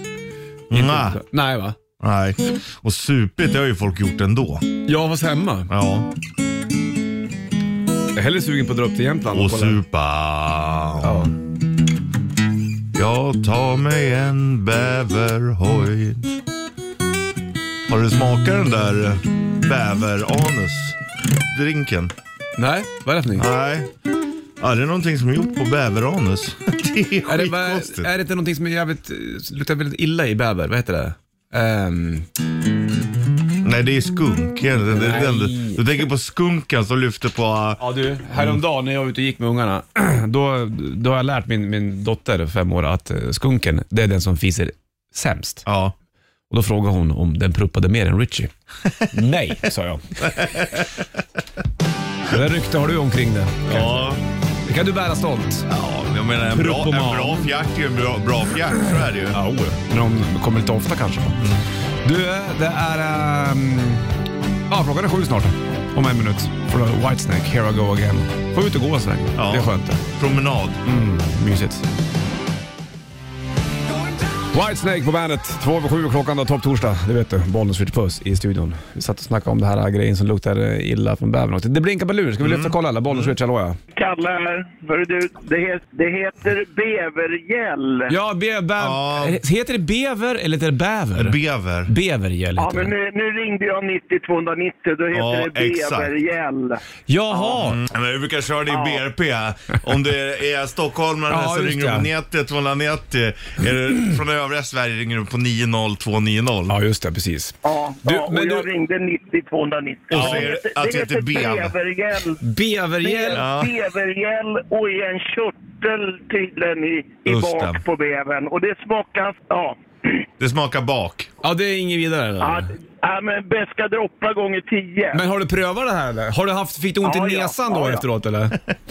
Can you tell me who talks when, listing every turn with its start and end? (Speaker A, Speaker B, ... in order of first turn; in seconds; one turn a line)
Speaker A: 0.7-1.2
Speaker B: 0.7-1.8
Speaker A: 2.0-4.7
Speaker B: 4.8-5.7
Speaker A: 5.7-6.1
Speaker B: 8.1-9.8
Speaker A: 9.3-11.3
Speaker B: 11.0-11.3
Speaker A: 12.9-16.3
Speaker A: 17.9-22.1
Speaker B: 22.6-23.5
Speaker A: 23.4-23.9
Speaker A: 24.6-28.1
Speaker B: 27.3-32.3
Speaker A: 33.6-38.6
Speaker B: 34.8-35.8
Speaker B: 37.8-45.7
Speaker A: 45.7-45.9
Speaker B: 46.5-48.5
Speaker B: 49.1-50.6
Speaker A: 50.2-51.2
Speaker B: 52.3-54.0
Speaker A: 53.7-54.2
Speaker B: 54.7-55.7
Speaker A: 55.7-59.4
Speaker B: 56.5-57.5
Speaker B: 59.3-61.4
Speaker B: 62.0-64.2
Speaker B: 64.7-70.0
Speaker A: 69.4-70.8
Speaker B: 70.8-71.8
Speaker B: 74.5-83.8
Speaker A: 82.4-83.3
Speaker C: 84.0-88.1
Speaker B: 88.1-92.9
Speaker A: 88.8-89.4
Speaker A: 91.2-91.9
Speaker C: 92.6-96.8
Speaker A: 95.1-96.1
Speaker B: 97.1-97.8
Speaker A: 97.6-106.8
Speaker C: 98.7-99.0
Speaker B: 101.3-102.1
Speaker B: 106.7-108.7
Speaker C: 107.6-112.4
Speaker A: 110.1-111.7
Speaker B: 110.1-110.5
Speaker B: 112.4-113.4
Speaker C: 113.0-120.2
Speaker A: 113.3-113.7
Speaker A: 117.3-117.8
Speaker A: 120.4-121.3
Speaker B: 121.4-122.7
Speaker C: 122.4-125.2
Speaker B: 125.1-128.6
Speaker C: 127.0-128.0